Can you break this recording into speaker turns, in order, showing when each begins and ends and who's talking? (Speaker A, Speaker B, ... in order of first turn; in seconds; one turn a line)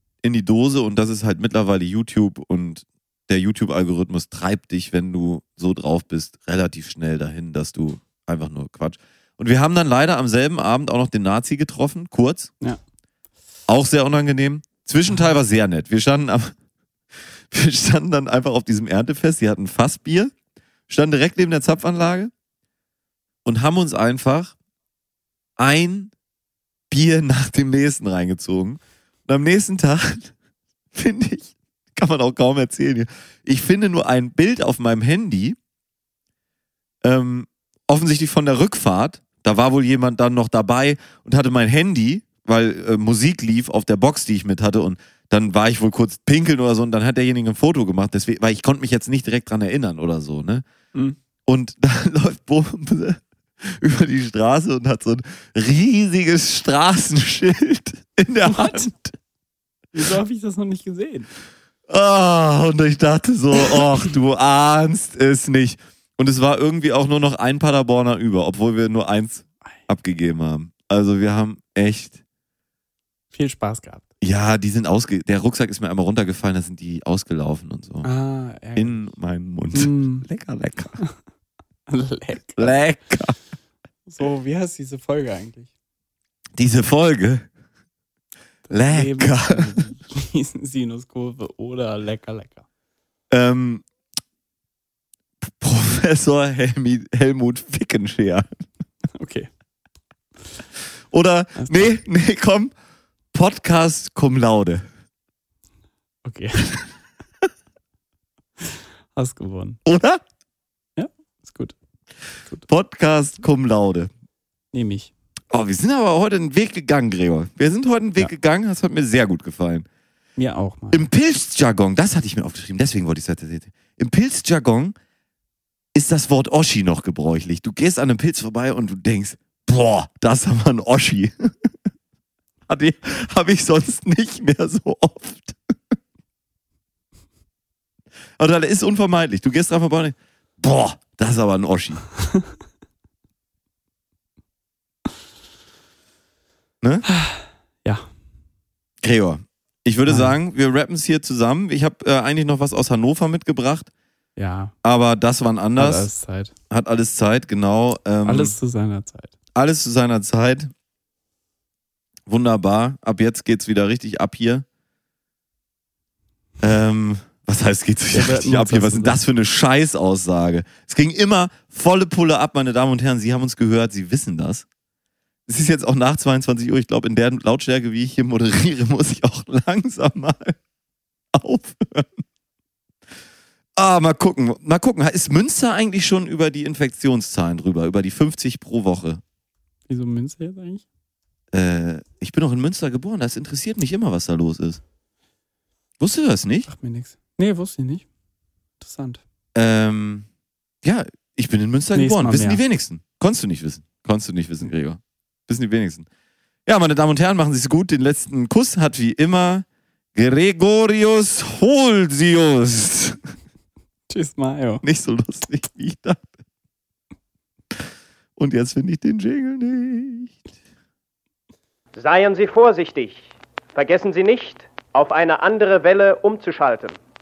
Speaker A: 0.2-12.5
Speaker A: 13.7-16.5
Speaker A: 17.5-20.3
Speaker A: 20.9-22.3
Speaker A: 23.4-24.5
Speaker A: 25.6-26.1
Speaker A: 26.9-30.3
Speaker A: 30.9-35.6
Speaker A: 37.0-50.6
Speaker A: 51.5-59.1
Speaker B: 58.5-58.9
Speaker B: 59.9-61.3
Speaker A: 61.9-72.2
Speaker B: 73.3-74.0
Speaker A: 74.2-78.1
Speaker B: 78.0-79.1
Speaker A: 78.7-81.0
Speaker B: 79.7-80.3
Speaker B: 81.9-82.8
Speaker A: 82.6-83.3
Speaker B: 84.1-85.7
Speaker A: 86.5-87.5
Speaker B: 88.7-92.6
Speaker A: 88.7-89.8
Speaker A: 93.3-93.8
Speaker A: 95.4-98.6
Speaker B: 99.2-99.5
Speaker A: 101.1-102.7
Speaker B: 101.6-101.9
Speaker A: 103.3-104.8
Speaker B: 106.2-106.7
Speaker B: 109.1-109.8
Speaker A: 109.8-110.2
Speaker B: 111.0-111.7
Speaker A: 112.7-114.1
Speaker B: 114.7-115.1
Speaker A: 115.5-119.8
Speaker B: 120.4-121.0
Speaker A: 120.9-124.9
Speaker A: 125.9-131.7
Speaker A: 132.7-135.9
Speaker A: 138.4-142.0
Speaker B: 147.1-148.1
Speaker A: 149.0-153.9
Speaker B: 150.1-150.3
Speaker B: 154.4-154.7
Speaker A: 154.8-156.1
Speaker B: 155.8-156.5
Speaker A: 156.7-158.5
Speaker B: 158.2-159.3
Speaker A: 159.6-160.7
Speaker A: 162.3-164.6
Speaker A: 166.6-174.7
Speaker B: 168.1-169.2
Speaker A: 175.5-180.6
Speaker A: 181.3-182.2
Speaker A: 183.8-189.2
Speaker B: 189.9-190.8
Speaker A: 191.5-194.8
Speaker A: 196.0-196.7
Speaker B: 196.7-198.0
Speaker B: 198.8-199.2
Speaker A: 199.5-200.3
Speaker A: 200.8-206.1
Speaker B: 201.9-202.6
Speaker A: 206.7-213.2
Speaker B: 214.1-214.8
Speaker A: 214.8-216.2
Speaker A: 218.4-220.4
Speaker C: 221.9-227.0